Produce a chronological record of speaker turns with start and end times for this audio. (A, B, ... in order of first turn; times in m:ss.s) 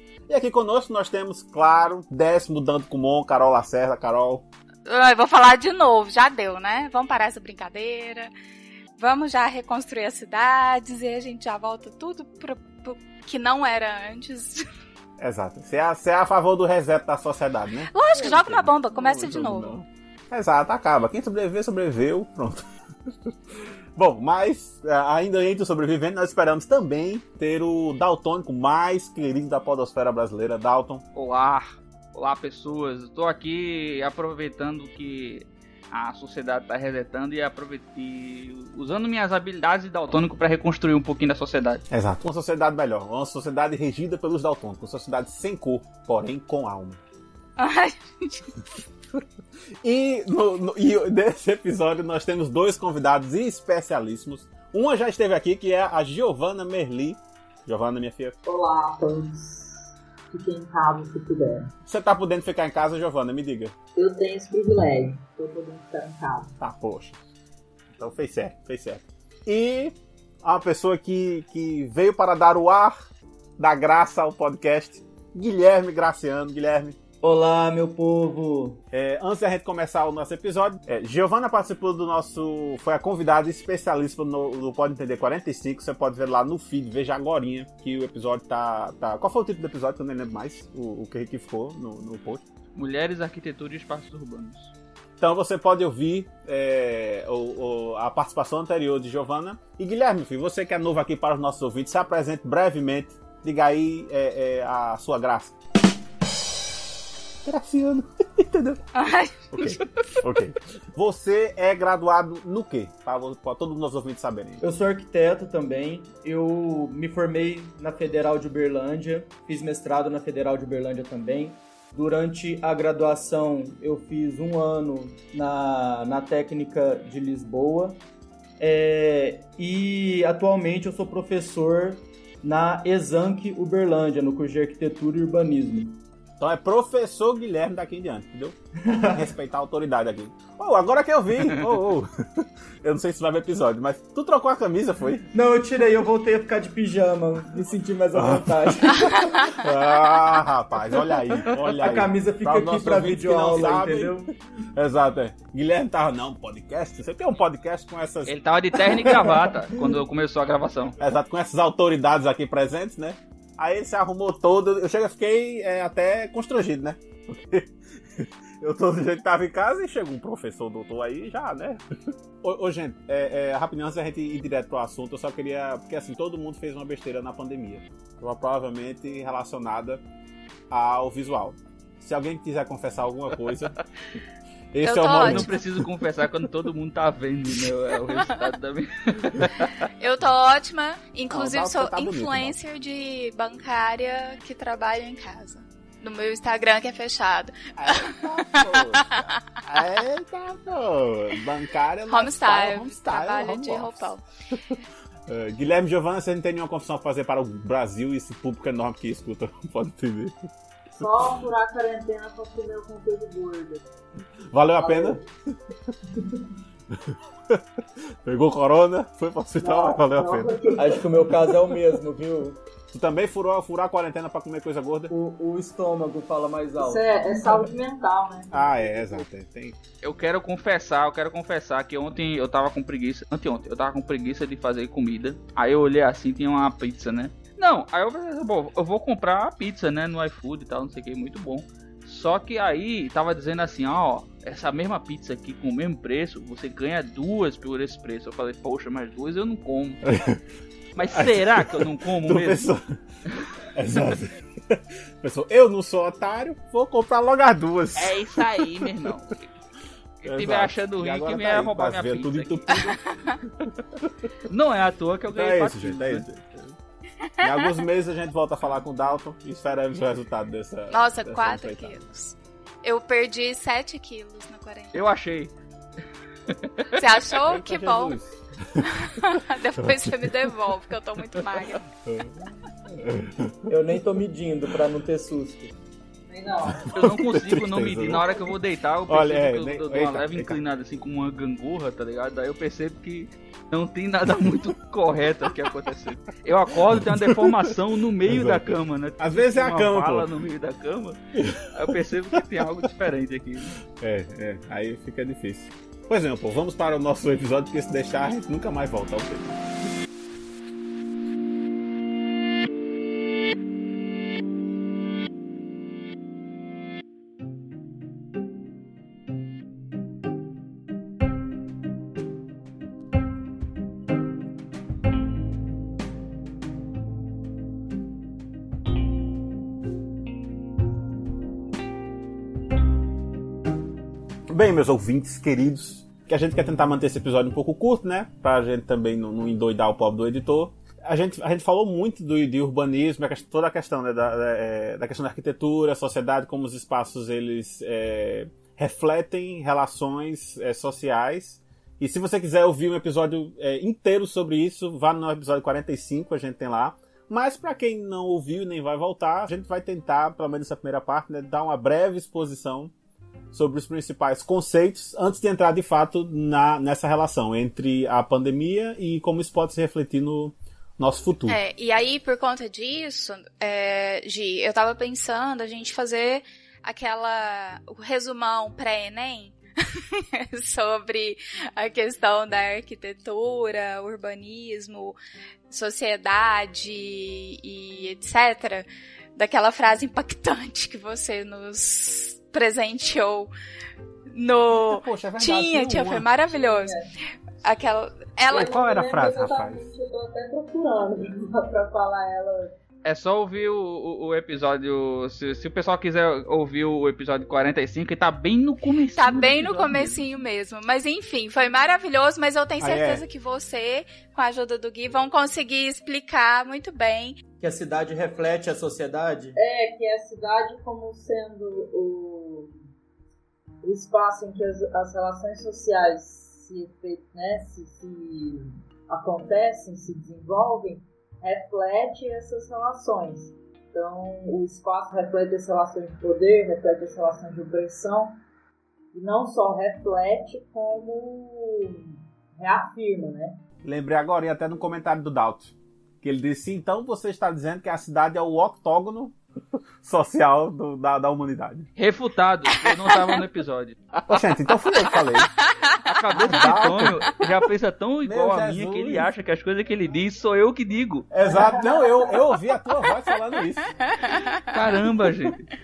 0:00.3-0:04.4 A
0:04.8-0:08.3 B
0:09.0-0:14.6 B
0:15.2-0:22.6 A
0:17.9-0:19.7 B
0:23.9-0:31.0 A
0:31.1-0:41.8 C
0:41.9-0:47.0 A
0:47.6-0:48.5 B
0:49.8-0:58.4 A
0:58.4-1:01.7 D
1:01.8-1:03.7 A
1:04.0-1:06.6 D
1:06.6-1:07.2 A
1:07.9-1:13.0 A
1:13.6-1:17.0 A
1:17.2-1:18.8 E
1:18.9-1:32.4 A
1:32.7-1:34.7 C
1:35.2-1:45.6 A
1:47.4-1:48.8 A
1:48.9-1:50.2 B
1:49.5-1:54.6 A
1:54.6-2:08.0 E
2:08.6-2:16.0 E
2:16.4-2:25.3 A
2:18.8-2:19.3 E
2:25.3-2:29.3 E
2:28.2-2:28.9 A
2:29.1-2:29.5 B
2:29.5-2:34.2 A
2:31.7-2:34.3 E
2:34.7-2:39.3 A
2:38.2-2:40.9 C
2:41.0-2:51.8 A
2:52.4-3:00.0 A
3:00.7-3:03.8 A
3:04.7-3:05.8 A
3:04.8-3:05.6 B
3:05.2-3:09.9 C
3:10.0-3:19.3 B
3:11.3-3:12.6 A
3:17.8-3:24.1 A
3:22.1-3:24.2 B
3:25.3-3:30.3 A
3:31.0-3:33.8 D
3:34.5-3:35.2 A
3:34.8-3:35.2 D
3:36.9-3:37.6 A
3:38.2-3:40.8 A
3:39.6-3:41.0 D
3:40.8-3:42.6 E
3:42.9-3:45.1 A
3:45.1-3:47.1 E
3:46.8-3:49.3 D
3:48.5-3:49.8 A
3:50.0-4:10.0 C
4:10.0-4:10.4 A
4:11.0-4:12.7 C
4:11.1-4:13.0 A
4:13.7-4:19.1 A
4:18.0-4:19.4 C
4:20.2-4:22.6 C
4:20.2-4:23.0 A
4:22.7-4:23.4 B
4:23.6-4:24.1 A
4:24.5-4:26.2 C
4:25.3-4:26.8 A
4:27.2-4:27.8 B
4:27.4-4:32.0 A
4:30.9-4:35.0 B
4:34.9-4:35.5 C
4:36.5-4:37.0 C
4:37.0-4:38.2 B
4:37.4-4:40.5 A
4:38.8-4:41.8 B
4:42.0-4:43.7 A
4:43.7-4:45.7 E
4:46.3-4:46.9 D
4:46.9-4:48.4 A
4:46.9-5:01.2 C
4:49.1-4:50.6 A
4:56.9-4:57.6 A
4:58.3-5:00.3 A
5:01.4-5:01.9 A
5:01.7-5:03.7 C
5:04.0-5:09.6 A
5:34.5-6:02.9 A
6:03.5-6:11.6 A
6:11.5-6:25.2 B
6:25.7-6:33.5 B
6:34.3-6:37.0 B
6:34.8-6:36.3 A
6:36.4-6:37.1 D
6:37.6-6:38.7 B
6:38.5-6:39.9 A
6:38.5-6:42.7 D
6:43.0-6:50.2 C
6:49.2-6:57.4 B
6:52.8-6:53.2 A
6:57.6-6:59.6 E
6:59.6-7:02.7 D
7:03.8-7:18.4 D
7:19.1-7:22.0 D
7:22.6-7:23.6 D
7:23.8-7:29.4 A
7:30.0-7:31.9 A
7:32.0-7:34.2 C
7:34.3-7:35.5 A
7:35.6-7:36.0 B
7:36.0-7:41.3 C
7:36.3-7:37.4 A
7:38.2-7:39.3 A
7:41.3-7:43.9 A
7:44.0-7:44.8 B
7:44.7-7:45.6 C